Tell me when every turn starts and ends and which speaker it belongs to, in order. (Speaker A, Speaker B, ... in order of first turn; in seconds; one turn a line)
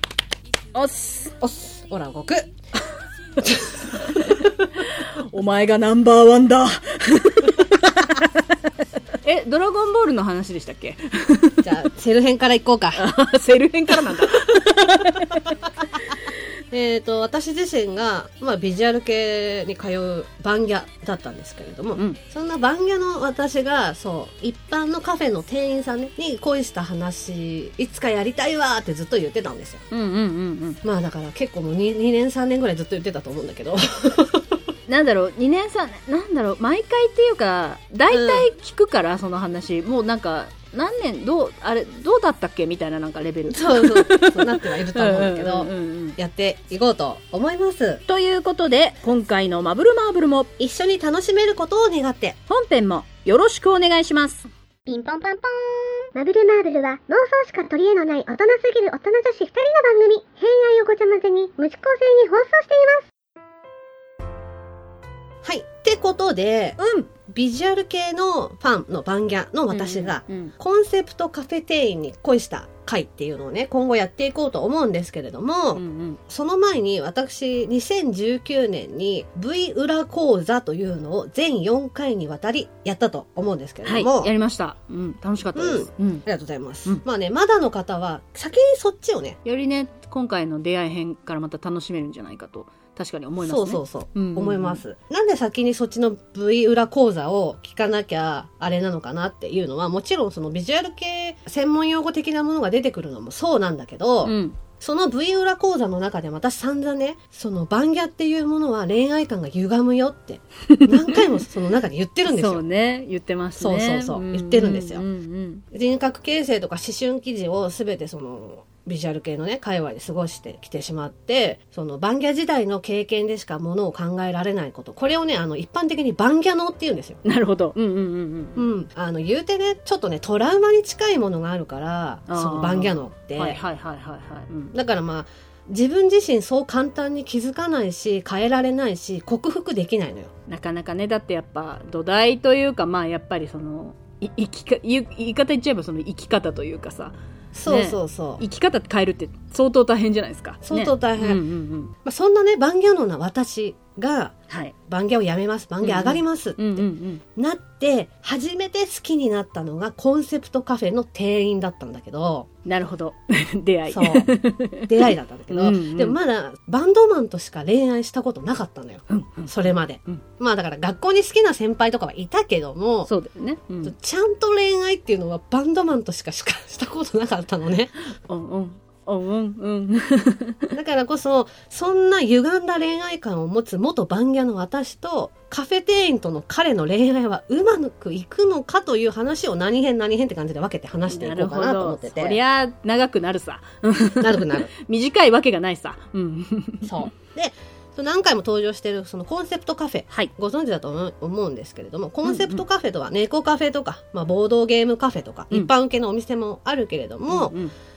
Speaker A: 0.7-1.8
Speaker B: 1.8-2.5
Speaker B: 3.4-4.5
Speaker A: 4.1-8.5
Speaker A: 9.2-11.7
Speaker B: 11.6-13.0
Speaker A: 12.9-15.5
Speaker B: 14.1-15.2
Speaker B: 16.7-29.8
Speaker A: 29.9-30.8
Speaker B: 30.8-34.5
Speaker A: 34.9-46.2
Speaker B: 38.1-38.5
Speaker B: 43.5-48.0
Speaker A: 48.1-50.5
Speaker B: 50.6-52.4
Speaker A: 52.5-54.5
Speaker C: 54.9-55.5
Speaker C: 56.1-63.0
Speaker B: 65.4-84.3
Speaker A: 66.8-67.1
Speaker A: 69.7-70.5
Speaker A: 75.7-76.2
Speaker A: 83.8-86.2
Speaker B: 85.5-89.4
Speaker A: 89.4-94.8
Speaker B: 93.4-112.6
Speaker A: 104.2-104.6
Speaker A: 110.7-111.2
Speaker A: 112.2-115.6
Speaker B: 113.6-115.0
Speaker B: 115.7-127.2
Speaker A: 127.2-128.7
Speaker B: 128.6-133.6
Speaker A: 132.3-134.8
Speaker B: 134.7-140.3
Speaker A: 140.5-151.9
Speaker B: 147.5-148.4
Speaker B: 150.6-151.4
Speaker B: 152.0-154.3
Speaker A: 154.5-154.7
Speaker B: 154.8-162.5
Speaker A: 155.8-157.2
Speaker A: 162.6-166.2
Speaker B: 163.9-164.3
Speaker B: 164.8-173.1
Speaker A: 169.1-170.2
Speaker A: 173.1-173.9
Speaker B: 173.8-177.9
Speaker A: 178.2-180.7
Speaker B: 180.7-192.4
Speaker A: 191.1-197.1
Speaker B: 194.2-194.7
Speaker B: 196.8-207.5
Speaker A: 202.2-202.6
Speaker A: 207.3-207.7